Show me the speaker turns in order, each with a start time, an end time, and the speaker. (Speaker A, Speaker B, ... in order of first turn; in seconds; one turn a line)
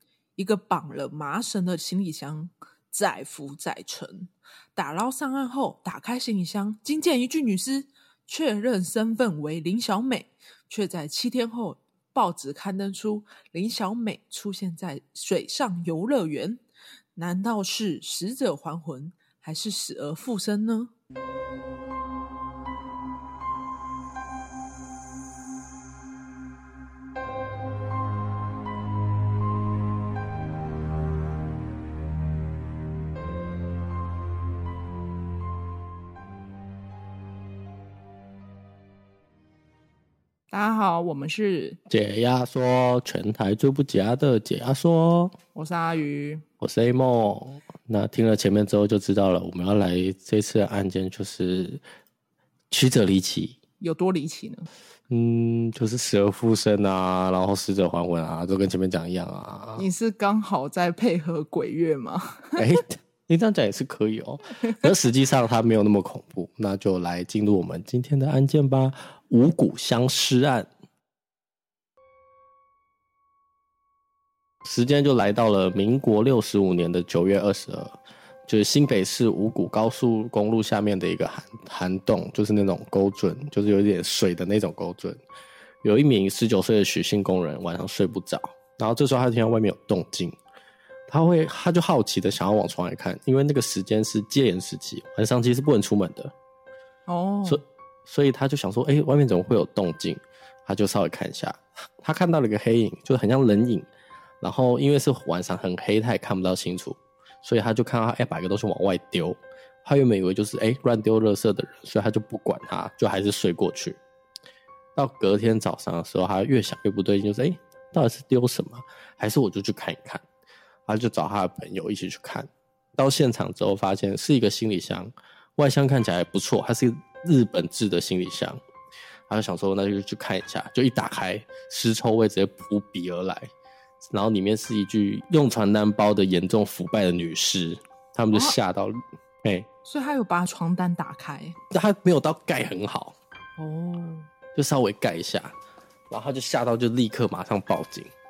Speaker A: 0.4-16.6
Speaker A: 17.1-20.9
Speaker A: 40.5-41.8
Speaker B: 41.9-45.3
Speaker A: 45.5-46.4
Speaker B: 46.6-51.8
Speaker B: 52.7-53.6
Speaker A: 53.8-54.7
Speaker B: 55.1-59.9
Speaker A: 59.8-62.6
Speaker B: 62.6-70.7
Speaker B: 74.6-85.2
Speaker B: 85.8-90.4
Speaker B: 91.1-96.3
Speaker A: 97.1-97.6
Speaker B: 97.5-103.9
Speaker B: 104.4-114.0
Speaker B: 115.0-120.2
Speaker B: 120.8-128.6
Speaker B: 129.3-133.5
Speaker B: 134.1-139.7
Speaker A: 138.3-138.6
Speaker A: 139.8-141.6
Speaker B: 141.7-143.2
Speaker A: 143.6-144.3
Speaker B: 144.5-145.6
Speaker B: 146.1-148.1